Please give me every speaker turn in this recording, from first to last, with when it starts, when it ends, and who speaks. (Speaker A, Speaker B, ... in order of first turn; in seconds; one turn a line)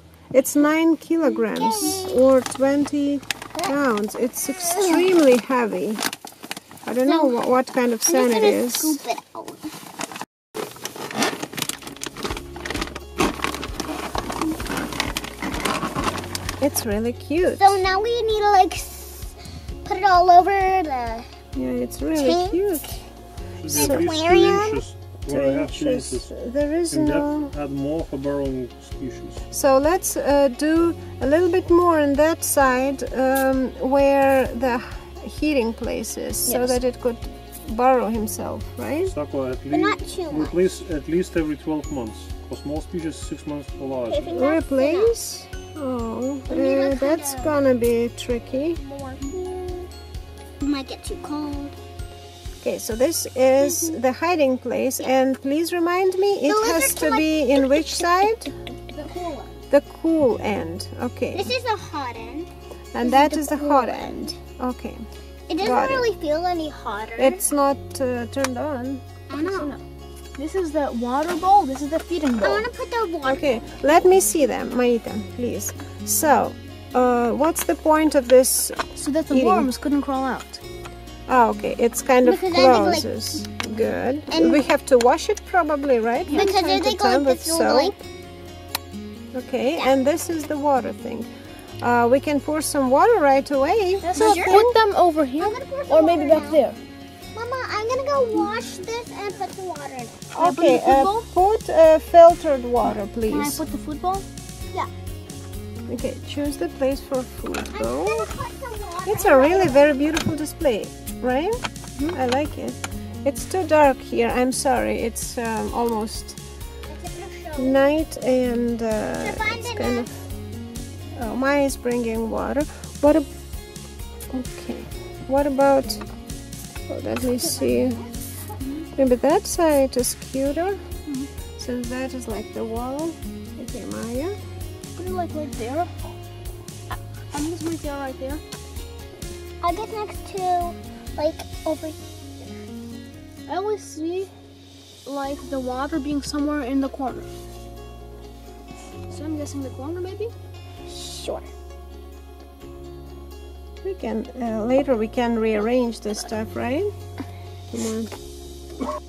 Speaker A: 0.3-6.0
Speaker B: 1.2-2.3
Speaker B: 4.7-5.1
Speaker A: 6.8-9.0
Speaker C: 7.1-7.4
Speaker C: 8.1-8.6
Speaker B: 8.4-9.7
Speaker A: 16.6-17.8
Speaker B: 17.6-21.3
Speaker A: 21.5-22.9
Speaker B: 22.1-23.0
Speaker D: 23.6-26.3
Speaker B: 23.7-24.9
Speaker A: 23.7-24.1
Speaker A: 25.3-27.5
Speaker D: 26.9-29.4
Speaker A: 29.5-39.1
Speaker C: 36.5-36.8
Speaker D: 39.0-44.4
Speaker B: 39.7-40.6
Speaker B: 44.0-45.2
Speaker A: 44.3-48.8
Speaker B: 46.5-47.6
Speaker B: 48.6-49.9
Speaker B: 50.6-51.7
Speaker A: 52.6-58.5
Speaker B: 53.6-54.0
Speaker B: 56.5-58.5
Speaker C: 58.9-59.5
Speaker A: 59.7-61.5
Speaker B: 61.3-62.5
Speaker A: 62.9-65.0
Speaker B: 63.0-64.4
Speaker B: 65.5-67.4
Speaker A: 65.6-66.1
Speaker A: 67.2-69.0
Speaker B: 69.3-69.8
Speaker C: 69.4-69.8
Speaker C: 70.4-72.7
Speaker B: 72.4-73.5
Speaker A: 73.2-79.7
Speaker C: 79.0-80.6
Speaker A: 81.3-88.0
Speaker B: 82.2-83.1
Speaker B: 84.3-84.6
Speaker C: 86.3-86.6
Speaker B: 86.3-88.0
Speaker A: 89.3-91.3
Speaker A: 91.8-94.7
Speaker C: 94.0-96.8
Speaker B: 94.1-94.7
Speaker B: 95.4-96.7
Speaker B: 97.3-100.2
Speaker A: 100.3-103.6
Speaker C: 100.4-101.3
Speaker C: 103.2-104.3
Speaker A: 105.9-108.3
Speaker B: 107.7-109.9
Speaker A: 109.1-111.6
Speaker A: 112.1-116.4
Speaker B: 116.9-117.8
Speaker A: 117.6-120.1
Speaker B: 119.2-120.1
Speaker A: 121.1-123.3
Speaker A: 124.3-126.0
Speaker A: 126.9-128.0
Speaker B: 127.3-128.1
Speaker A: 129.0-130.8
Speaker A: 131.6-134.4
Speaker C: 135.0-135.9
Speaker C: 137.3-138.4
Speaker B: 139.6-142.5
Speaker C: 143.5-144.3
Speaker C: 145.1-147.3
Speaker C: 149.1-150.3
Speaker B: 150.9-151.5
Speaker A: 153.8-156.9
Speaker A: 157.7-158.1